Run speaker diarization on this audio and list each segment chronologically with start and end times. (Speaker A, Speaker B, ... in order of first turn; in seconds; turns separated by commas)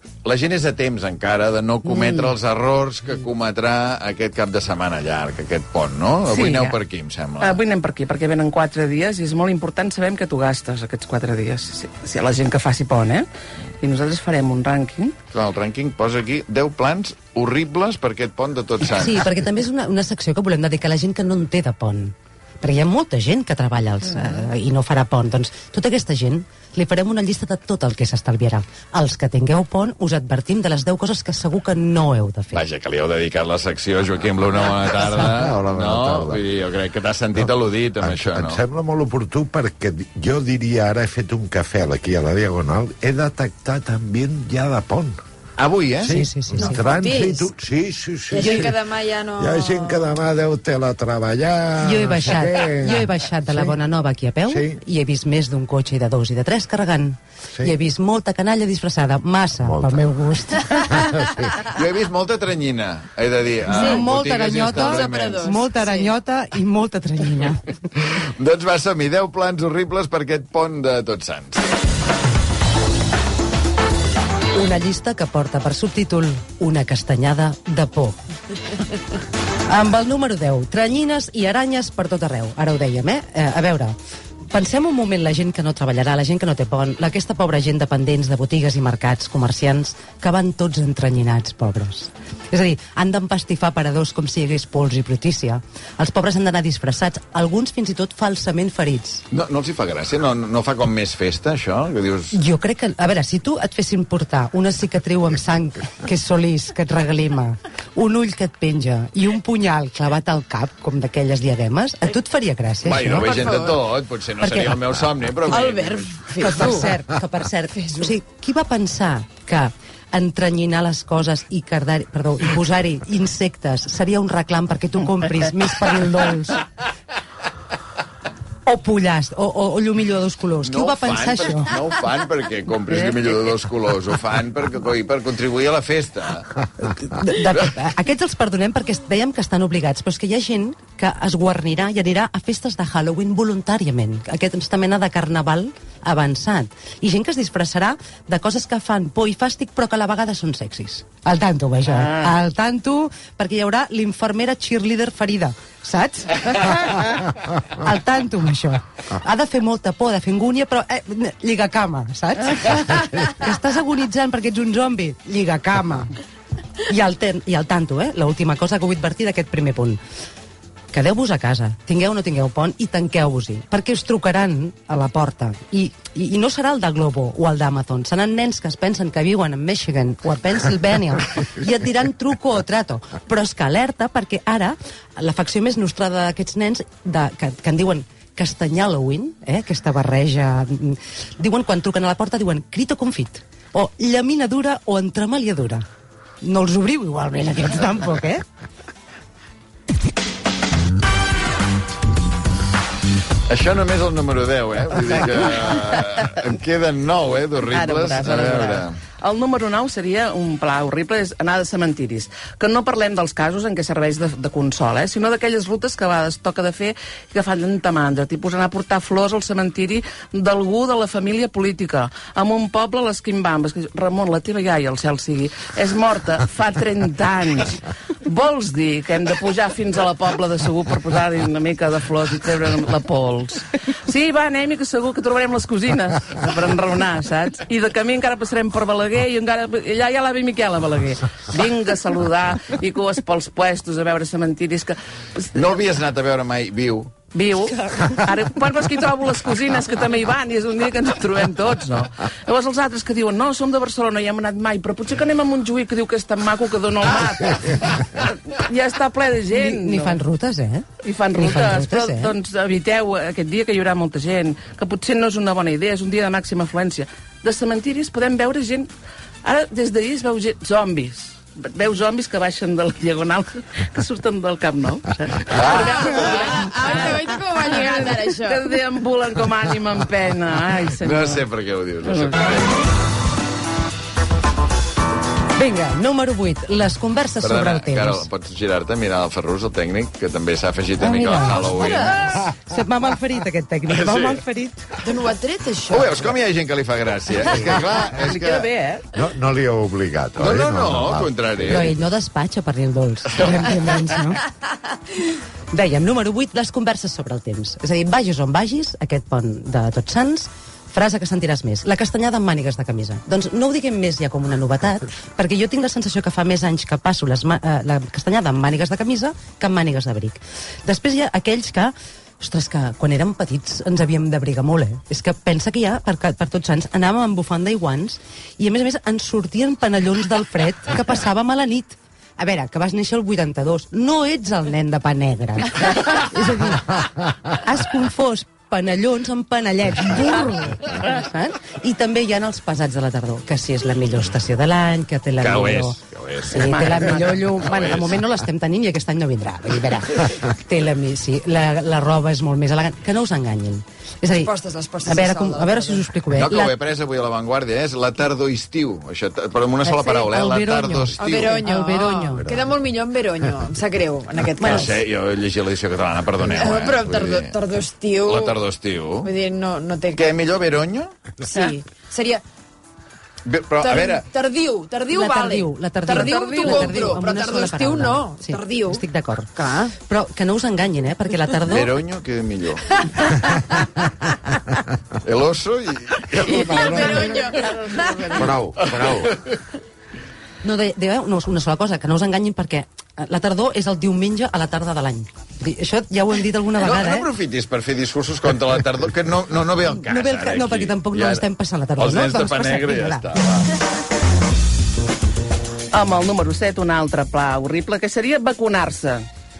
Speaker A: 0.2-7.6, Speaker B: 6.3-6.7, Speaker B: 7.4-13.3, Speaker B: 13.8-15.2, Speaker A: 15.3-19.3, Speaker C: 18.9-32.6, Speaker A: 32.5-38.6, Speaker D: 34.9-36.4, Speaker D: 37.3-45.2, Speaker A: 45.6-46.1, Speaker D: 46.0-48.8, Speaker C: 46.1-46.8, Speaker E: 46.6-47.5, Speaker E: 48.3-50.1, Speaker D: 49.4-53.8, Speaker C: 51.8-60.9, Speaker D: 54.5-54.8, Speaker D: 59.6-60.0, Speaker D: 60.9-61.5, Speaker A: 61.6-65.5, Speaker E: 63.7-64.0, Speaker C: 63.7-67.7, Speaker E: 64.7-66.1, Speaker A: 68.0-71.6, Speaker C: 74.5-78.2, Speaker C: 79.7-83.9, Speaker C: 84.5-99.2, Speaker A: 99.3-102.3, Speaker C: 102.3-113.4, Speaker A: 112.8-116.2, Speaker E: 113.1-113.8, Speaker C: 114.4-114.7, Speaker E: 115.4-116.9, Speaker C: 116.4-126.6, Speaker C: 128.7-131.7, Speaker A: 130.6-136.5, Speaker C: 136.8-166.1, Speaker C: 166.9-170.0, Speaker C: 170.9-195.8, Speaker C: 196.4-198.4, Speaker A: 203.5-208.9, Speaker B: 207.7-245.6, Speaker A: 245.5-247.1, Speaker B: 247.3-260.2, Speaker C: 259.5-262.3, Speaker B: 261.0-268.9, Speaker B: 269.4-281.4, Speaker A: 275.5-276.3, Speaker E: 276.0-278.6, Speaker A: 281.0-282.8, Speaker B: 282.1-282.4, Speaker C: 285.6-288.3, Speaker A: 287.4-292.4, Speaker C: 291.0-294.9, Speaker A: 293.9-294.4, Speaker E: 295.0-296.3, Speaker A: 295.9-298.6, Speaker B: 298.2-299.1, Speaker D: 299.1-301.9, Speaker A: 300.4-301.9, Speaker C: 301.6-304.4, Speaker A: 303.3-303.6, Speaker C: 305.7-354.5, Speaker A: 345.4-348.2, Speaker E: 354.4-356.0, Speaker C: 355.0-356.7, Speaker A: 356.3-361.6, Speaker C: 359.8-362.5, Speaker E: 361.2-365.0, Speaker C: 364.6-364.9, Speaker A: 364.6-367.6, Speaker E: 366.4-368.6, Speaker A: 368.2-369.3, Speaker E: 369.2-370.4, Speaker A: 370.1-371.1, Speaker E: 371.4-372.4, Speaker A: 373.4-374.2, Speaker E: 373.8-379.0, Speaker C: 375.1-381.9, Speaker E: 379.6-379.9, Speaker A: 381.7-383.0, Speaker A: 385.2-387.4, Speaker E: 386.3-388.6, Speaker D: 386.7-387.2, Speaker D: 388.3-389.4, Speaker A: 388.8-389.2, Speaker C: 390.6-397.3, Speaker A: 396.8-401.5, Speaker C: 400.0-403.3, Speaker A: 402.0-403.7, Speaker B: 405.9-409.3